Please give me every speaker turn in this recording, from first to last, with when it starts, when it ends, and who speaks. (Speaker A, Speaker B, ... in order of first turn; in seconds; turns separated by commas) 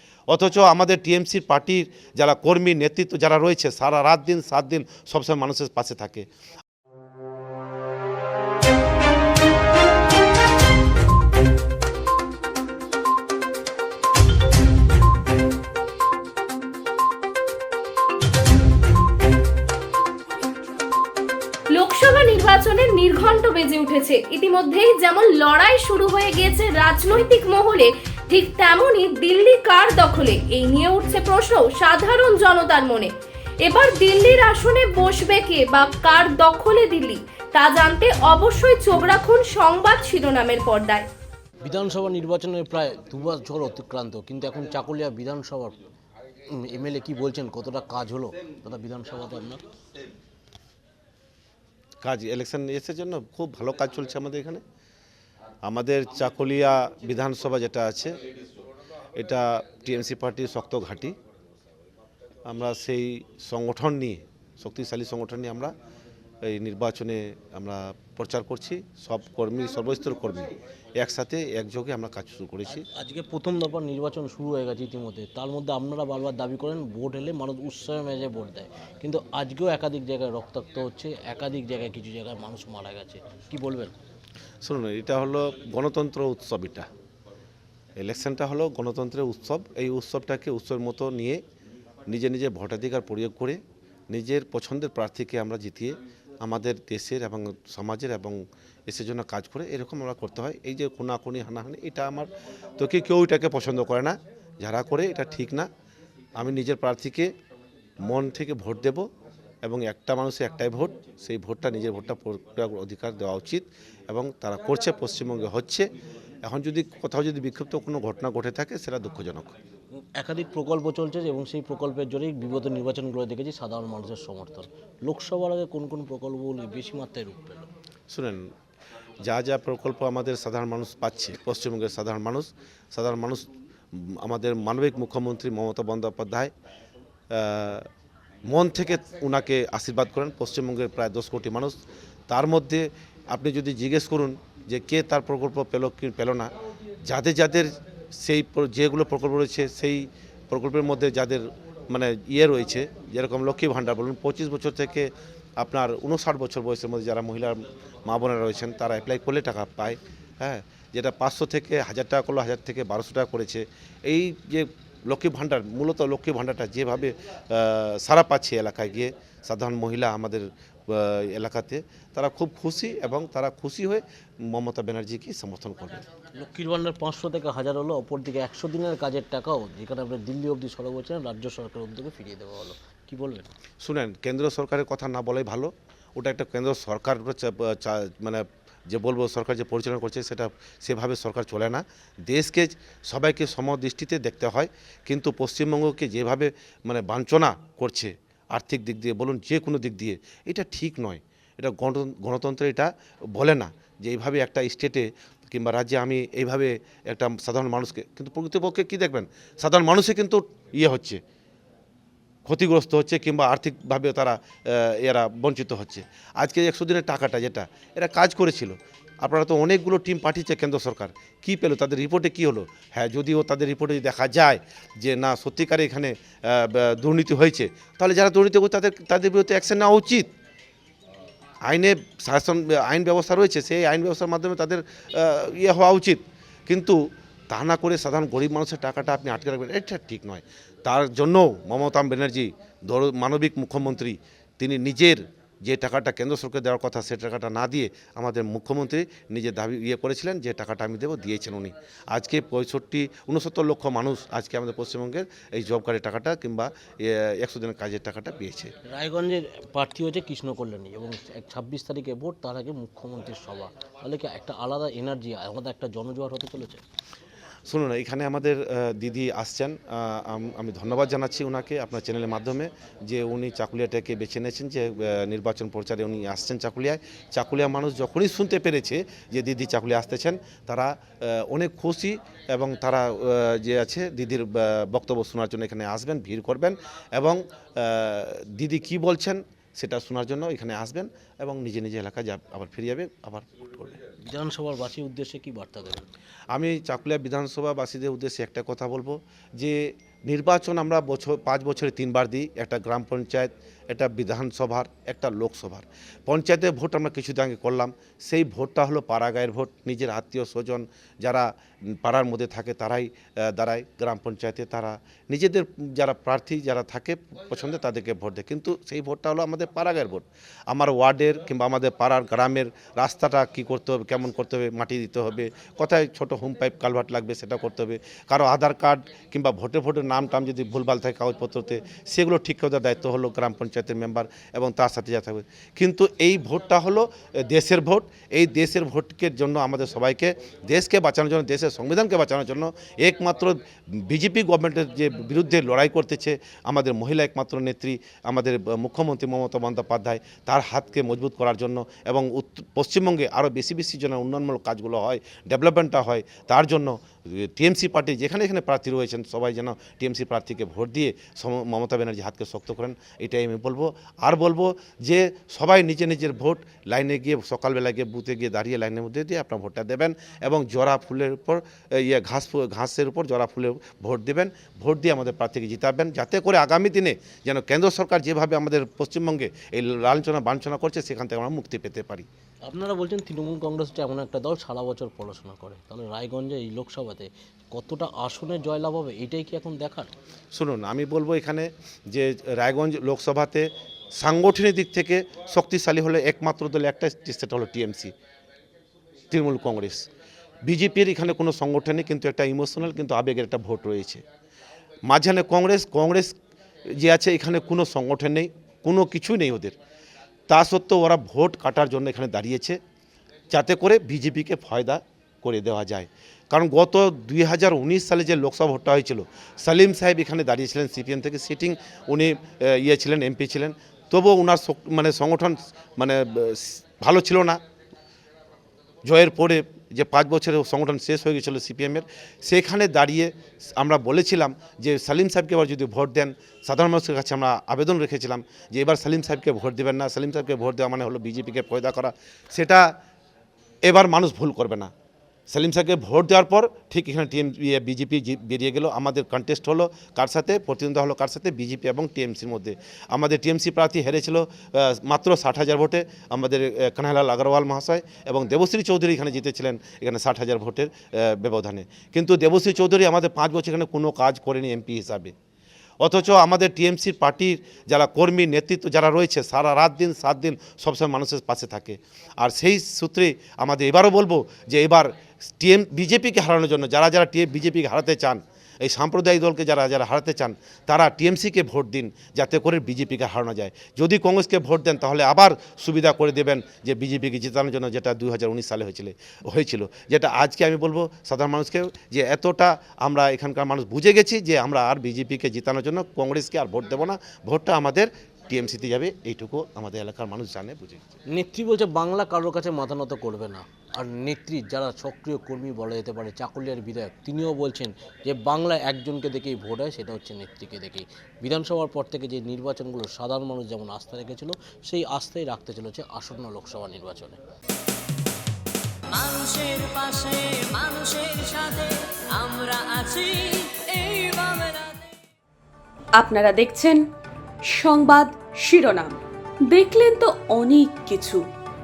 Speaker A: 0.3-6.2, Speaker B: 21.7-33.1, Speaker B: 33.6-41.1, Speaker C: 41.6-45.8, Speaker C: 46.5-49.6, Speaker A: 52.0-54.6, Speaker A: 55.6-58.1, Speaker A: 59.2-61.1, Speaker A: 62.5-65.7, Speaker A: 66.4-72.8, Speaker C: 72.9-83.9, Speaker A: 84.6-86.9, Speaker A: 88.0-91.4, Speaker A: 92.1-93.6, Speaker A: 94.1-105.7, Speaker A: 106.4-107.3, Speaker A: 108.0-109.1, Speaker A: 109.7-115.9, Speaker A: 116.5-119.6, Speaker C: 120.2-127.7, Speaker A: 128.1-128.5, Speaker A: 129.2-136.5, Speaker A: 137.3-137.9, Speaker A: 138.5-146.5, Speaker A: 147.1-176.1, Speaker C: 176.4-183.5, Speaker A: 183.8-211.2, Speaker A: 212.5-230.3, Speaker A: 231.7-237.0, Speaker A: 237.5-258.7, Speaker C: 258.9-266.8, Speaker A: 267.7-294.0, Speaker C: 294.2-296.1, Speaker A: 296.5-382.3, Speaker C: 382.6-390.1, Speaker A: 390.5-393.7, Speaker A: 394.2-398.1, Speaker A: 399.3-400.1, Speaker A: 400.7-404.2, Speaker A: 405.1-406.3, Speaker A: 406.9-409.8, Speaker A: 410.5-412.8, Speaker A: 413.5-427.6, Speaker A: 429.1-442.9, Speaker A: 443.9-444.9, Speaker A: 445.5-465.3, Speaker A: 466.0-501.2, Speaker C: 501.3-517.4, Speaker D: 519.1-525.2, Speaker E: 526.1-527.0, Speaker E: 527.7-531.5